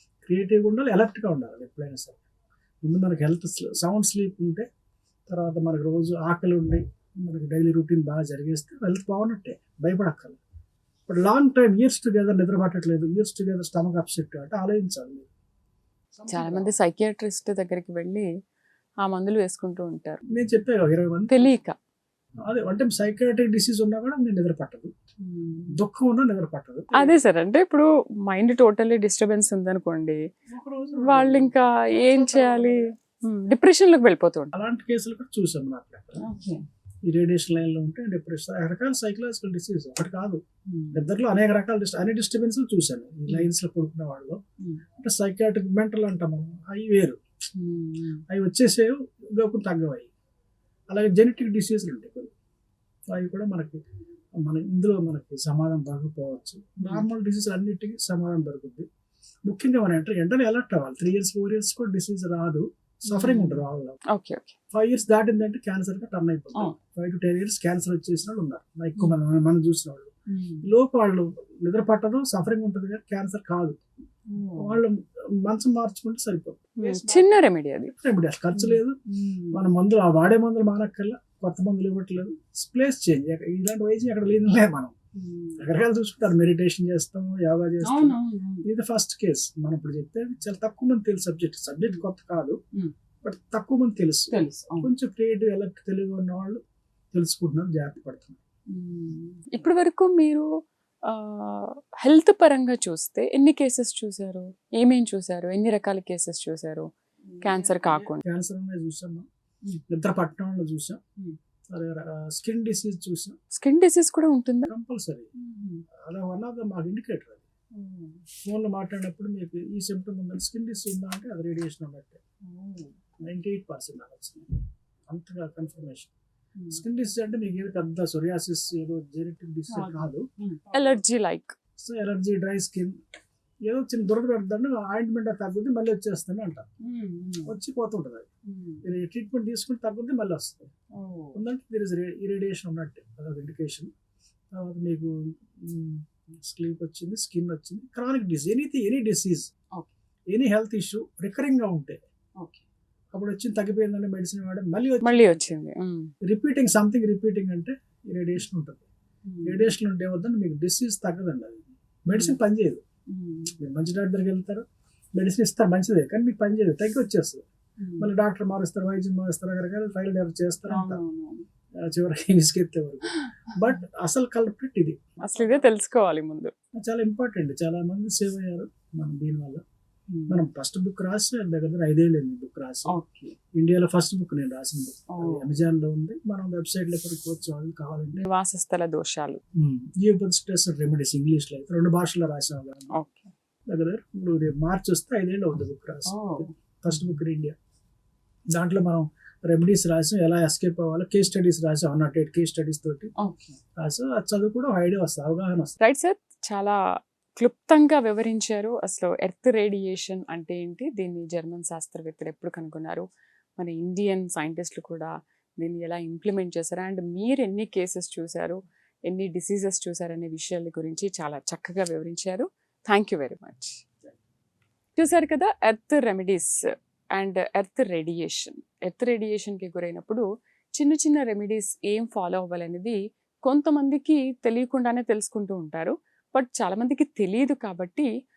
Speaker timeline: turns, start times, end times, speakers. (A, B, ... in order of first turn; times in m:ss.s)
0:00.2-0:02.2 A
0:02.8-0:04.7 A
0:05.3-0:10.4 A
0:11.1-0:15.3 A
0:16.1-0:16.7 A
0:16.3-0:18.3 B
0:19.0-0:20.2 B
0:20.3-0:21.5 A
0:21.3-0:21.8 B
0:22.5-0:24.9 A
0:25.2-0:25.8 B
0:25.7-0:27.2 A
0:26.9-0:30.2 B
0:30.5-0:33.0 A
0:31.0-0:34.5 B
0:34.5-0:36.2 A
0:36.2-0:36.6 B
0:37.0-0:44.4 A
0:40.7-0:41.0 B
0:45.0-0:47.2 A
0:47.6-0:48.2 B
0:48.3-0:50.1 A
0:50.9-0:52.3 A
0:53.1-0:53.8 A
0:54.4-0:58.9 A
0:56.8-0:57.0 B
0:59.5-1:04.0 A
1:03.1-1:04.6 B
1:04.7-1:10.1 A
1:10.3-1:10.7 B
1:10.6-1:13.8 A
1:14.3-1:14.8 B
1:14.6-1:19.0 A
1:16.8-1:17.9 B
1:18.5-1:19.6 B
1:19.5-1:24.9 A
1:25.2-1:25.6 B
1:25.6-1:32.6 A
1:27.8-1:28.7 B
1:33.2-1:36.6 A
1:34.3-1:34.9 B
1:37.1-1:38.4 A
1:38.7-1:40.5 B
1:41.1-1:46.9 B
1:47.3-1:49.3 A
1:47.4-1:48.2 B
1:49.9-1:51.0 A
1:51.7-1:53.4 A
1:53.5-1:54.7 B
1:54.7-1:55.3 A
1:55.4-1:55.8 B
1:56.0-1:57.5 A
1:57.8-1:58.2 B
1:58.4-2:02.2 A
2:02.4-2:02.9 B
2:03.2-2:06.1 A
2:06.6-2:06.8 B
2:06.7-2:10.3 A
2:09.7-2:11.6 B
2:11.8-2:13.0 A
2:13.6-2:16.7 A
2:16.8-2:17.6 B
2:17.4-2:18.3 A
2:18.5-2:18.8 B
2:18.8-2:20.7 A
2:21.0-2:21.4 B
2:21.4-2:23.9 A
2:24.5-2:29.5 A
2:30.3-2:32.0 A
2:33.1-2:35.5 A
2:35.0-2:36.1 B
2:36.2-2:38.8 A
2:39.3-2:39.7 B
2:39.4-2:42.8 A
2:43.1-2:43.5 B
2:43.6-2:47.4 A
2:47.8-2:48.1 B
2:48.0-2:51.0 A
2:50.7-2:51.4 B
2:51.8-2:55.0 A
2:55.2-2:56.5 B
2:56.7-2:59.6 A
3:00.1-3:00.4 B
3:00.3-3:03.0 A
3:02.9-3:03.4 B
3:03.5-3:08.3 A
3:05.1-3:05.5 B
3:08.2-3:09.4 B
3:09.6-3:12.9 A
3:12.9-3:13.3 B
3:13.7-3:17.6 A
3:16.1-3:16.5 B
3:18.5-3:23.1 A
3:23.2-3:23.6 B
3:23.8-3:25.7 A
3:25.8-3:26.8 B
3:27.4-3:33.1 B
3:33.6-3:43.9 B
3:45.0-3:46.5 B
3:47.1-3:58.1 B